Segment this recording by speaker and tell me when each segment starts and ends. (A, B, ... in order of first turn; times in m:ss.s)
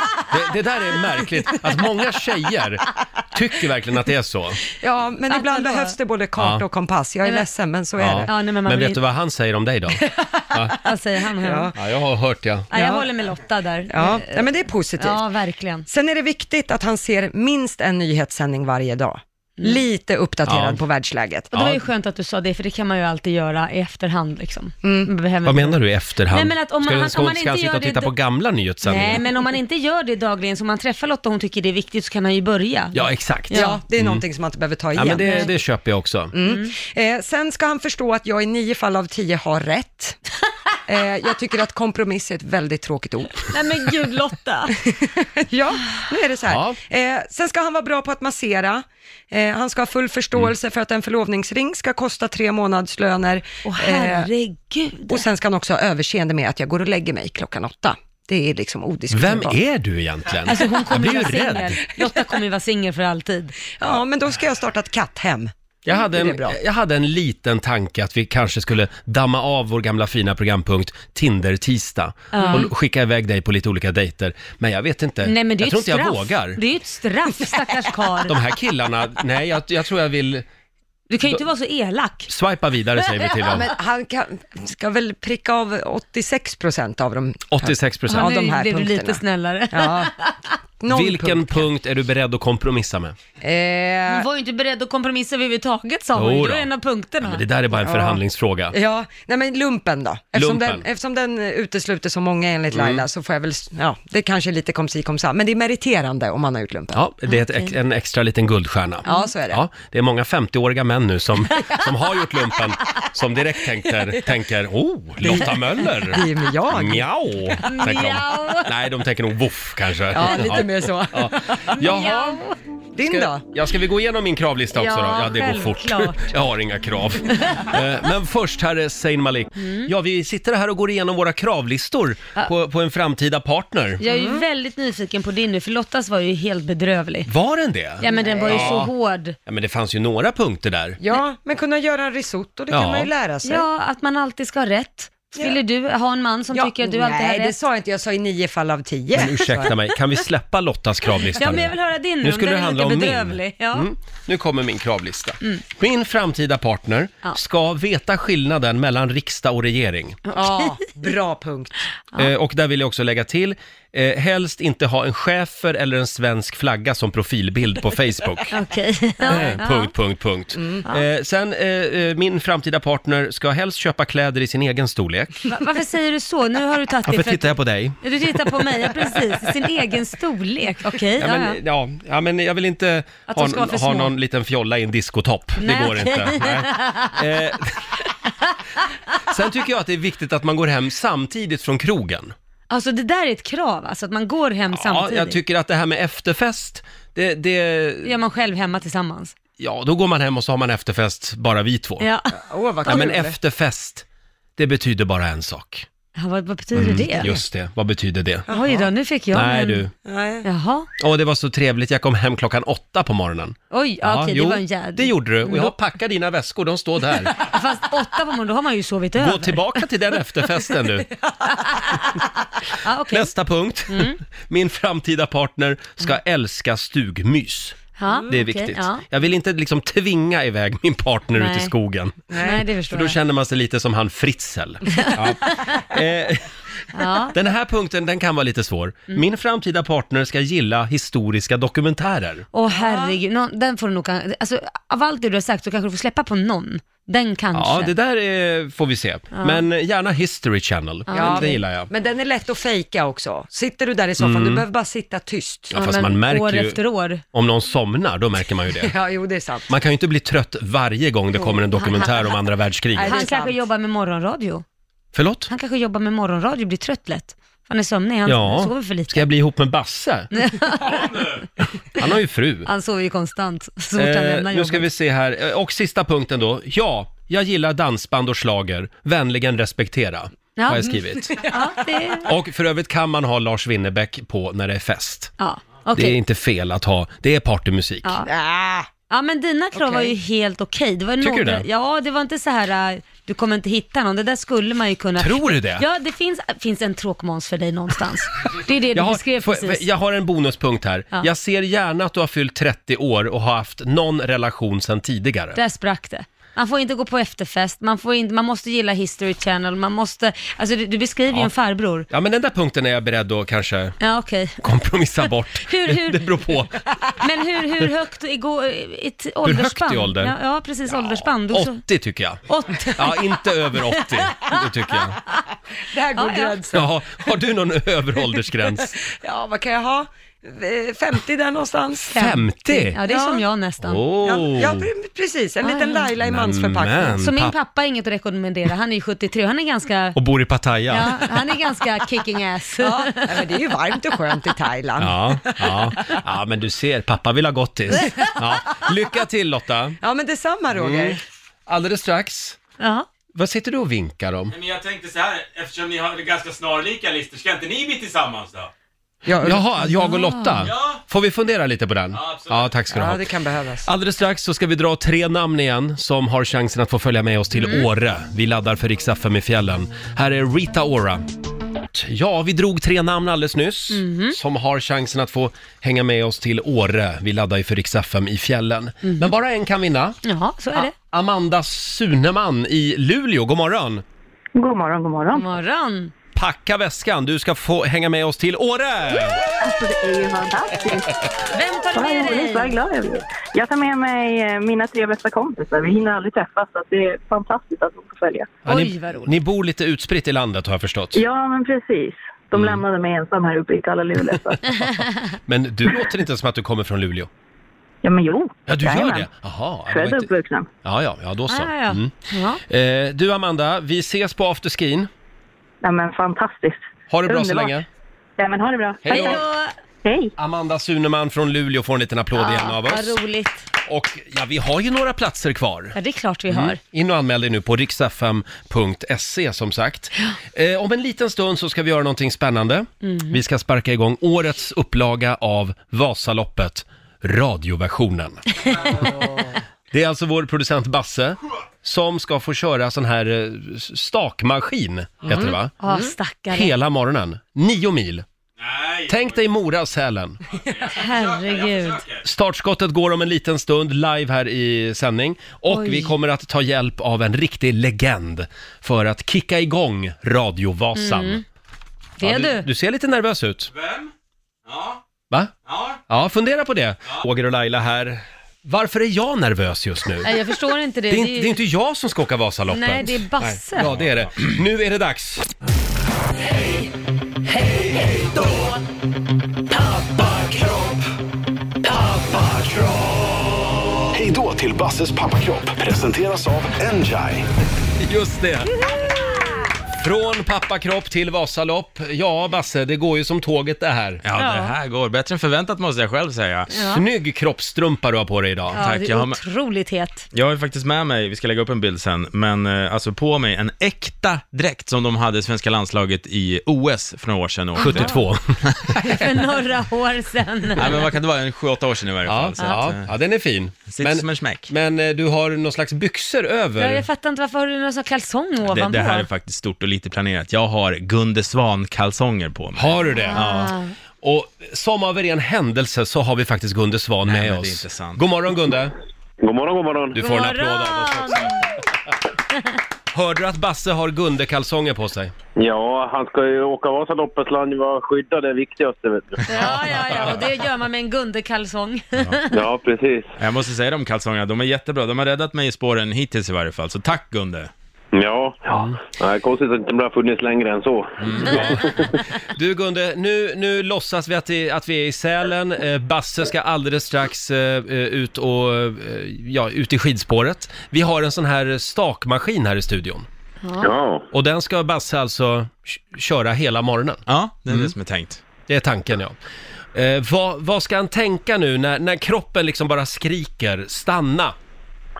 0:00.3-0:04.6 A
0:04.8-0:08.3 B
0:05.3-0:05.9 C
0:06.4-0:06.6 A
0:08.0-0:10.0 A
0:08.3-0:09.0 C
0:10.2-0:10.8 B
0:10.8-0:11.7 C
0:11.3-0:11.8 B
0:11.7-0:12.7 A
0:12.7-0:14.5 C
0:12.7-0:13.1 B
0:13.9-0:15.2 B
0:15.0-0:15.8 C
0:15.9-0:21.5 B
0:20.4-0:20.8 A
0:21.5-0:21.8 A
0:21.5-0:28.1 C
0:24.8-0:25.1 B
0:25.4-0:29.2 A
0:28.8-0:33.8 C
0:32.9-0:34.2 A
0:33.5-0:35.5 B
0:34.9-0:36.3 A
0:35.2-0:35.5 C
0:36.3-0:40.2 B
0:36.4-0:36.7 C
0:40.9-0:43.5 B
0:43.5-0:44.8 C
0:44.8-0:54.3 B
0:46.4-0:46.8 A
0:53.6-0:55.2 C
0:55.1-0:59.6 B
0:59.1-1:01.8 A
1:00.5-1:03.6 C
1:02.0-1:02.2 B
1:03.8-1:06.6 B
1:05.8-1:16.6 A
1:12.3-1:12.7 C
1:12.4-1:12.7 B
1:15.2-1:18.4 C
1:18.3-1:20.4 A
1:21.1-1:22.3 C
1:22.3-1:23.7 A
1:23.4-1:30.1 B
1:27.5-1:28.3 A
1:28.1-1:30.3 C
1:30.8-1:31.7 B
1:30.9-1:33.2 A
1:33.4-1:34.3 B
1:34.1-1:37.4 C
1:36.1-1:36.7 A
1:37.2-1:38.7 A
1:37.8-1:38.2 B
1:38.7-1:47.0 B
1:40.3-1:40.8 A
1:42.7-1:43.0 A
1:46.9-2:02.4 A
1:49.0-1:49.6 B
1:55.2-1:57.1 B
1:57.6-1:58.7 C
2:00.1-2:02.1 B
2:01.7-2:02.6 C
2:02.9-2:03.4 B
2:03.0-2:14.0 A
2:04.7-2:06.3 C
2:07.3-2:07.7 C
2:09.6-2:09.9 C
2:14.0-2:17.3 C
2:14.0-2:14.4 B
2:17.3-2:18.9 A
2:18.0-2:19.4 C
2:18.0-2:18.9 B
2:19.4-2:21.0 A
2:21.0-2:23.7 B
2:22.7-2:23.1 A
2:23.4-2:27.5 C
2:25.4-2:25.6 B
2:26.5-2:29.7 B
2:29.1-2:40.2 A
2:31.4-2:33.9 C
2:40.3-2:40.8 C
2:40.3-2:41.8 B
2:42.2-2:48.5 A
2:48.5-2:49.9 C
2:49.3-2:55.4 A
2:49.3-2:49.5 B
2:50.6-2:50.8 B
2:55.5-3:01.6 C
2:57.1-2:58.0 A
3:01.2-3:07.9 A
3:03.3-3:04.1 C
3:05.6-3:07.2 C
3:09.2-3:12.3 A
3:12.7-3:15.4 C
3:14.7-3:18.1 A
3:18.0-3:19.3 C
3:19.6-3:22.1 A
3:22.0-3:22.3 C
3:22.3-3:23.4 B
3:22.8-3:24.0 A
3:24.6-3:25.8 A
3:26.2-3:27.3 C
3:26.7-3:28.5 A
3:28.5-3:28.9 B
3:28.5-3:29.8 C
3:29.3-3:29.9 A
3:30.0-3:30.5 B
3:30.4-3:30.9 C
3:31.0-3:37.4 A
3:33.7-3:35.7 C
3:37.3-3:39.8 C
3:39.2-3:41.1 A
3:41.5-3:42.2 C
3:42.8-3:43.3 C
3:43.1-3:52.3 A
3:43.9-3:44.2 C
3:48.0-3:49.0 C
3:51.4-3:51.7 C
3:52.3-3:52.7 B
3:52.4-3:53.2 C
3:52.9-3:56.4 A
3:54.9-3:55.8 C
3:56.9-3:57.3 C
3:57.3-4:02.5 A
4:02.5-4:07.9 C
4:02.7-4:03.2 B
4:07.5-4:11.9 A
4:09.3-4:09.6 C
4:11.1-4:11.6 C
4:11.1-4:15.7 B
4:14.2-4:14.6 A
4:15.7-4:16.8 A
4:15.7-4:17.2 C
4:17.3-4:18.9 A
4:18.7-4:19.7 B
4:19.7-4:23.2 A
4:21.5-4:22.4 C
4:22.9-4:23.6 B
4:23.0-4:24.6 C
4:25.1-4:25.5 A
4:25.5-4:29.3 C
4:28.2-4:30.3 A
4:30.3-4:31.0 C
4:30.8-4:31.4 D
4:32.0-4:32.7 A
4:32.6-4:34.9 C
4:34.0-4:41.4 A
4:40.6-4:42.3 C
4:41.3-4:42.0 B
4:42.2-4:45.3 A
4:45.4-4:46.2 C
4:45.9-4:48.1 A
4:48.0-4:48.3 C
4:48.2-4:48.9 B
4:49.1-4:59.8 C
4:49.8-4:50.1 B
4:51.2-4:51.6 A
4:55.2-4:55.8 A
4:58.9-5:05.6 A
5:05.6-5:12.1 C
5:12.1-5:14.0 A
5:14.0-5:14.6 C
5:14.6-5:16.8 A
5:15.6-5:16.5 C
5:17.2-5:21.8 C
5:19.4-5:20.3 A
5:20.9-5:22.4 A
5:22.5-5:24.6 C
5:22.9-5:25.2 A
5:25.8-5:26.9 B
5:26.2-5:26.6 C
5:26.7-5:29.0 A
5:29.0-5:32.2 B
5:32.1-5:34.1 C
5:32.2-5:33.0 A
5:33.0-5:33.4 B
5:33.8-5:34.9 A
5:34.2-5:37.2 B
5:35.6-5:36.1 C
5:36.2-5:37.5 A
5:37.2-5:40.2 C
5:40.1-5:41.3 A
5:40.9-5:43.5 C
5:42.8-5:45.9 B
5:45.0-5:50.0 A
5:50.0-5:51.2 B
5:50.7-5:52.6 A
5:52.8-5:53.1 C
5:53.3-5:54.5 A
5:54.5-5:58.7 D
5:59.2-5:59.7 B
5:59.4-6:03.2 A
6:00.0-6:00.5 C
6:00.6-6:01.0 D
6:02.1-6:02.7 D
6:02.9-6:03.9 B
6:03.8-6:11.2 A
6:11.9-6:20.2 A
6:13.9-6:14.4 C
6:20.2-6:20.9 C
6:20.8-6:24.0 A
6:24.5-6:25.5 E
6:25.3-6:26.1 C
6:26.4-6:29.4 A
6:29.6-6:31.3 E
6:31.5-6:32.8 C
6:31.9-6:38.5 E
6:38.6-6:39.3 C
6:38.6-6:41.2 A
6:41.1-6:44.8 E
6:42.5-6:42.8 A
6:45.5-6:47.3 A
6:48.0-6:49.3 E
6:48.7-6:50.3 A
6:49.9-6:50.7 E
6:50.8-6:52.1 A
6:51.5-6:52.6 C
6:52.6-6:55.1 A
6:55.8-6:57.8 E
6:57.1-6:57.8 A
6:58.4-6:59.4 E
6:59.0-6:59.4 A
6:59.0-6:59.7 C
7:00.0-7:00.3 E
7:00.4-7:03.2 A
7:02.4-7:03.6 C
7:03.8-7:06.0 A
7:05.9-7:06.8 C
7:06.5-7:18.4 A
7:13.0-7:13.4 C
7:19.9-7:25.8 A
7:25.8-7:26.7 C
7:26.5-7:28.2 A
7:28.6-7:29.4 D
7:29.1-7:30.4 A
7:30.5-7:32.2 D
7:31.0-7:32.0 C
7:32.2-7:41.4 A
7:35.7-7:36.1 C
7:41.0-7:41.4 C
7:42.2-7:42.7 C
7:42.2-7:43.7 A
7:43.7-7:44.1 D
7:44.6-7:45.0 D
7:45.6-7:46.0 D
7:46.1-7:50.3 A
7:50.2-7:51.6 C
7:51.1-7:55.5 A
7:52.7-7:53.9 C
8:00.0-8:01.0 F
8:04.1-8:07.4 F
8:08.0-8:08.8 A
8:10.0-8:14.2 A
8:14.2-8:16.8 D
8:14.4-8:14.7 C
8:16.7-8:17.0 C
8:16.8-8:18.8 A
8:18.7-8:20.2 C
8:18.8-8:19.4 D
8:20.3-8:29.0 D
8:27.8-8:29.1 A
8:29.0-8:31.0 C
8:30.7-8:33.1 D
8:32.3-8:37.0 A
8:33.9-8:34.7 D
8:36.8-8:39.3 C
8:38.6-8:43.7 D
8:42.7-8:48.9 A
8:43.3-8:43.9 C
8:47.3-8:48.2 D
8:49.4-8:50.2 G
8:50.1-8:51.6 A
8:50.2-8:51.8 C
8:53.1-8:55.3 A
8:55.6-8:59.7 G
8:59.5-9:02.6 C
8:59.7-9:00.4 D
9:02.5-9:03.4 G
9:03.4-9:07.7 D
9:08.1-9:11.9 G
9:11.2-9:11.5 D
9:11.3-9:11.9 A
9:12.5-9:23.3 A
9:23.6-9:23.9 C
9:23.8-9:24.2 G
9:24.3-9:27.9 A
9:27.3-9:28.4 D
9:28.7-9:29.4 A
9:29.9-9:34.5 A